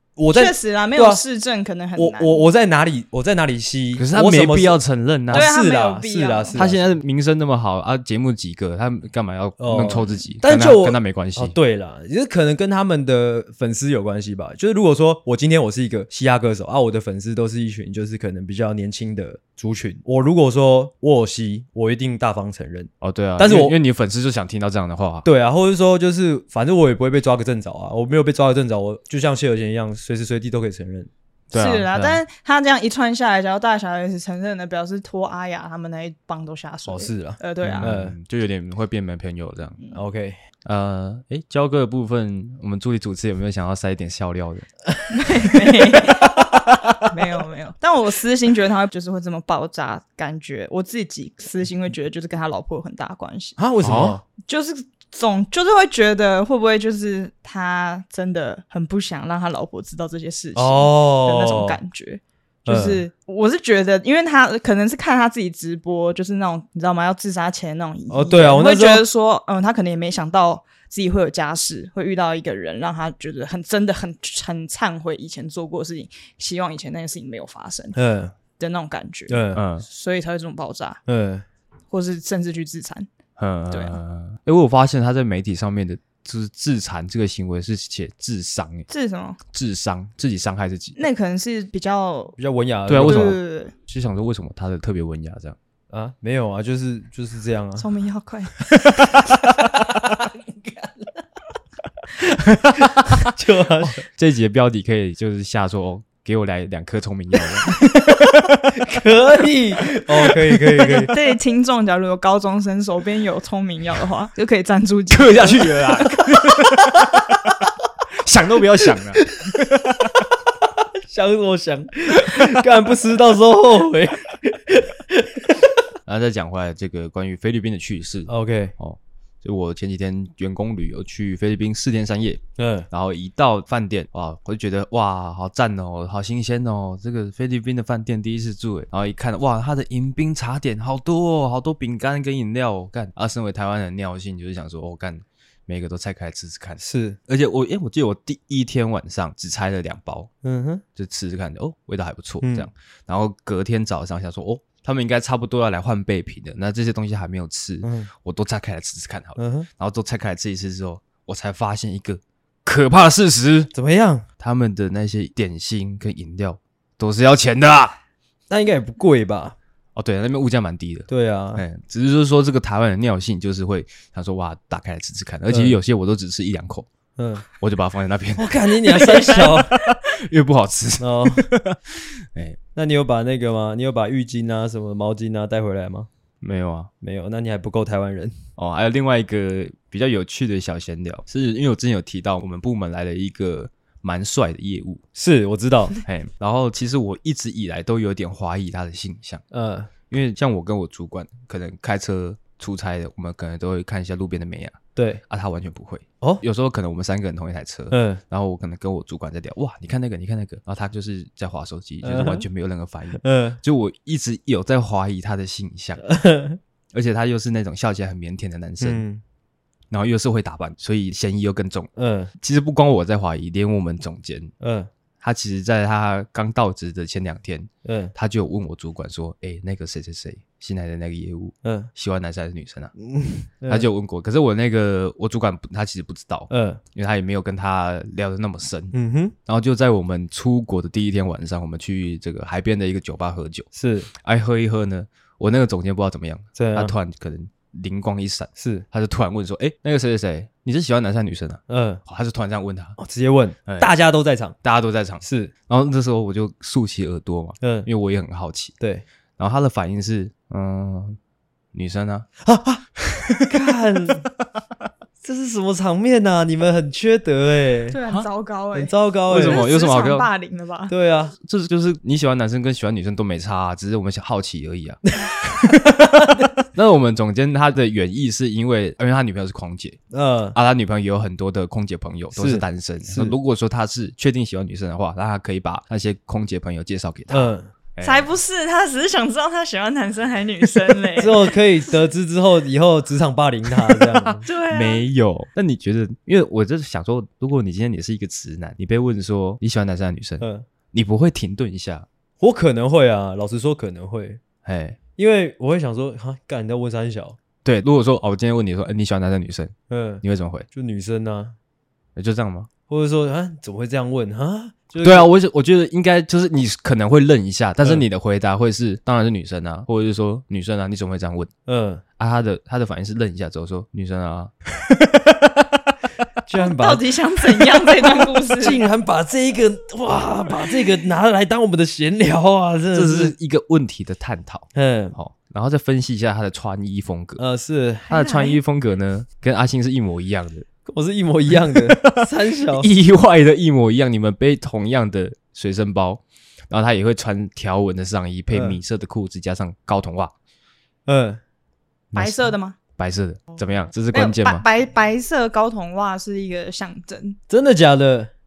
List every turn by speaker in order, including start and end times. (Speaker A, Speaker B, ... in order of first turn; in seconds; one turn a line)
Speaker A: 0.2-1.2
Speaker B: 0.3-2.5
Speaker A: 1.9-6.9
Speaker C: 4.0-5.5
Speaker B: 5.3-6.6
Speaker C: 6.5-11.5
Speaker A: 9.6-23.8
Speaker C: 23.0-25.2
Speaker A: 25.2-31.1
Speaker C: 31.5-32.2
Speaker B: 31.5-37.9
Speaker A: 36.9-38.1
Speaker C: 37.6-39.8
Speaker A: 39.9-40.4
Speaker C: 40.6-44.7
Speaker B: 45.1-53.6
Speaker A: 53.6-54.2
Speaker C: 53.8-54.2
Speaker B: 54.4-78.0
Speaker A: 60.5-61.8
Speaker A: 62.6-63.0
Speaker A: 68.1-69.0
Speaker A: 77.9-78.3
Speaker B: 78.6-81.0
Speaker A: 79.3-79.6
Speaker C: 79.5-79.8
Speaker A: 81.1-81.4
Speaker B: 81.9-83.1
Speaker C: 83.4-88.9
Speaker B: 83.7-84.0
Speaker B: 88.9-89.4
Speaker C: 89.5-91.0
Speaker B: 91.0-92.3
Speaker A: 92.4-93.3
Speaker C: 92.9-95.6
Speaker B: 93.0-93.7
Speaker A: 95.9-97.9
Speaker B: 97.8-98.5
Speaker A: 98.9-100.3
Speaker A: 102.2-104.0
Speaker C: 102.5-102.9
Speaker C: 104.0-108.9
Speaker A: 108.7-111.1
Speaker B: 110.8-116.0
Speaker C: 115.1-117.6
Speaker C: 118.2-120.2
Speaker A: 119.2-120.1
Speaker A: 120.8-125.6
Speaker C: 126.0-150.3
Speaker A: 128.3-128.7
Speaker A: 132.6-132.9
Speaker A: 146.8-147.2
Speaker A: 150.4-150.8
Speaker C: 150.9-163.7
Speaker A: 152.4-152.7
Speaker A: 157.8-158.1
Speaker A: 159.4-159.7
Speaker A: 163.7-164.2
Speaker C: 164.4-167.9
Speaker A: 168.5-169.6
Speaker C: 169.9-176.9
Speaker A: 171.1-171.6
Speaker A: 175.5-175.8
Speaker A: 177.2-177.4
Speaker C: 177.6-182.6
Speaker A: 178.4-179.7
Speaker A: 181.0-181.5
Speaker A: 182.7-186.1
Speaker C: 186.4-186.9
Speaker A: 187.0-188.4
Speaker C: 188.6-195.0
Speaker A: 195.1-196.0
Speaker C: 196.0-199.4
Speaker A: 199.5-199.9
Speaker C: 200.1-216.0
Speaker A: 204.9-205.2
Speaker A: 207.9-208.2
Speaker A: 212.0-212.4
Speaker A: 213.2-213.6
Speaker A: 216.0-216.6
Speaker C: 216.9-219.0
Speaker A: 218.8-219.2
Speaker C: 219.9-224.5
Speaker A: 221.9-222.3
Speaker A: 224.6-224.9
Speaker C: 225.2-232.9
Speaker A: 227.8-228.1
Speaker A: 231.6-231.9
Speaker A: 233.0-233.9
Speaker C: 233.7-238.9
Speaker A: 236.5-236.8
Speaker A: 238.9-239.3
Speaker C: 239.4-253.0
Speaker A: 243.7-244.1
Speaker A: 246.6-246.9
Speaker A: 248.6-248.8
Speaker A: 251.7-252.0
Speaker A: 253.0-254.6
Speaker C: 253.7-253.9
Speaker C: 254.6-258.7
Speaker A: 255.2-255.5
Speaker A: 257.6-257.9
Speaker A: 258.8-259.0
Speaker C: 259.4-261.2
Speaker C: 261.7-262.3
Speaker A: 262.4-262.8
Speaker C: 263.0-264.2
Speaker A: 263.4-264.3
Speaker A: 265.2-268.0
Speaker B: 267.9-270.9
Speaker A: 268.7-269.6
Speaker C: 269.3-270.3
Speaker A: 270.9-271.3
Speaker C: 271.4-280.0
Speaker A: 275.2-276.6
Speaker A: 280.1-280.6
Speaker C: 280.5-288.3
Speaker A: 282.3-283.3
Speaker A: 287.3-287.7
Speaker B: 288.0-291.6
Speaker A: 291.1-294.4
Speaker B: 294.4-295.0
Speaker C: 294.5-302.1
Speaker A: 300.4-300.7
Speaker A: 302.4-304.4
Speaker C: 304.6-305.0
Speaker A: 305.2-307.4
Speaker C: 307.6-310.7
Speaker A: 309.9-311.6
Speaker C: 312.1-312.7
Speaker A: 312.9-315.3
Speaker C: 315.0-321.5
Speaker A: 321.6-322.0
Speaker C: 322.2-324.5
Speaker A: 326.4-333.3
Speaker B: 326.5-328.8
Speaker C: 332.9-337.4
Speaker A: 334.7-335.1
Speaker A: 337.4-338.1
Speaker C: 338.1-340.7
Speaker B: 338.1-338.6
Speaker A: 340.9-342.9
Speaker C: 341.7-350.3
Speaker A: 348.5-348.8
Speaker A: 351.1-351.4
Speaker C: 352.1-354.6
Speaker B: 352.1-352.8
Speaker B: 354.1-357.4
Speaker A: 357.5-358.3